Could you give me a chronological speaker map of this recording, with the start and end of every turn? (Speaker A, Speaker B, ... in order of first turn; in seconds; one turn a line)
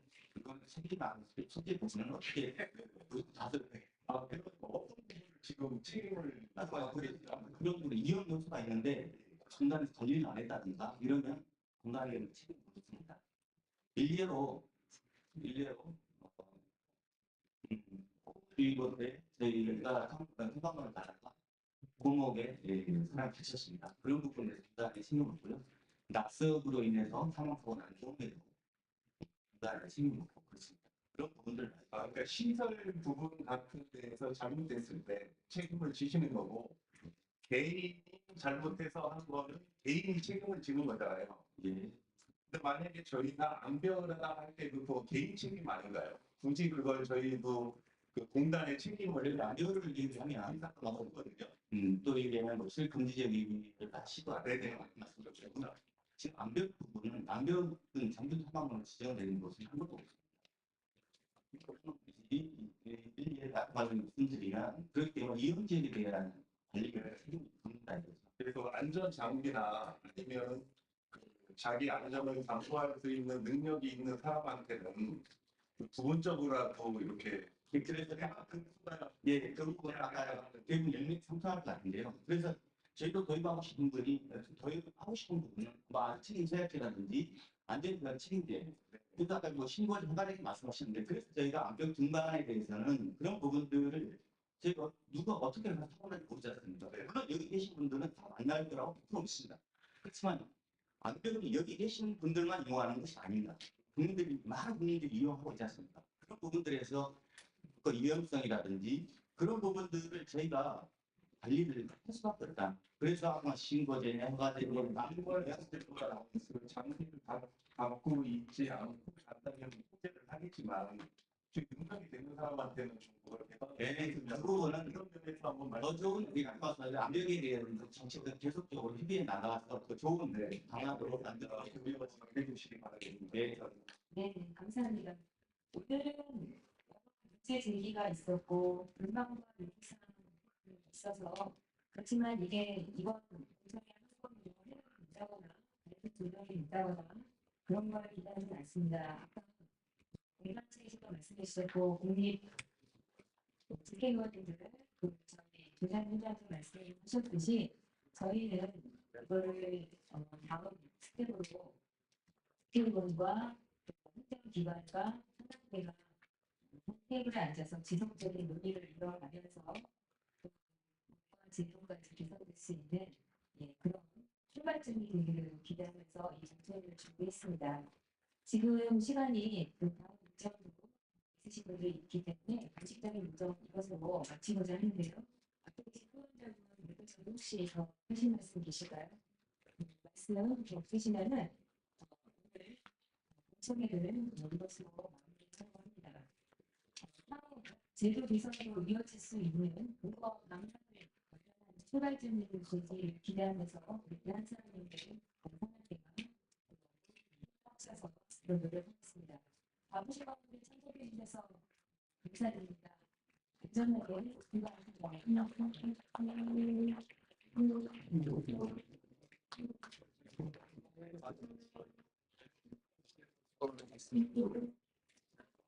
Speaker A: 0.3-3.9
Speaker B: 4.1-7.6
Speaker A: 6.5-13.2
Speaker A: 13.9-14.7
Speaker A: 15.3-16.6
Speaker A: 17.6-21.4
Speaker A: 22.0-28.5
Speaker A: 29.5-32.2
Speaker B: 31.9-36.8
Speaker B: 37.4-41.4
Speaker A: 41.6-42.0
Speaker B: 42.5-51.5
Speaker A: 49.2-51.1
Speaker A: 51.7-60.3
Speaker B: 54.3-55.7
Speaker A: 61.5-68.3
Speaker B: 68.4-75.2
Speaker B: 75.8-81.1
Speaker A: 77.7-78.6
Speaker A: 79.2-100.5
Speaker B: 88.9-89.2
Speaker A: 101.0-107.2
Speaker A: 107.7-110.9
Speaker A: 111.4-116.0
Speaker B: 114.6-127.0
Speaker A: 123.8-125.0
Speaker A: 125.8-132.1
Speaker B: 130.3-133.9
Speaker A: 133.3-133.6
Speaker C: 134.1-149.7
Speaker C: 150.4-152.4
Speaker C: 153.7-161.8
Speaker C: 162.7-166.1
Speaker C: 166.7-169.9
Speaker C: 171.1-177.9
Speaker C: 178.4-189.2
Speaker C: 189.8-192.8
Speaker C: 193.5-196.3
Speaker C: 197.0-211.6
Speaker C: 212.2-213.0
Speaker C: 213.6-215.9
Speaker D: 215.4-217.0
Speaker D: 217.6-218.8
Speaker D: 221.2-221.8
Speaker D: 224.1-224.7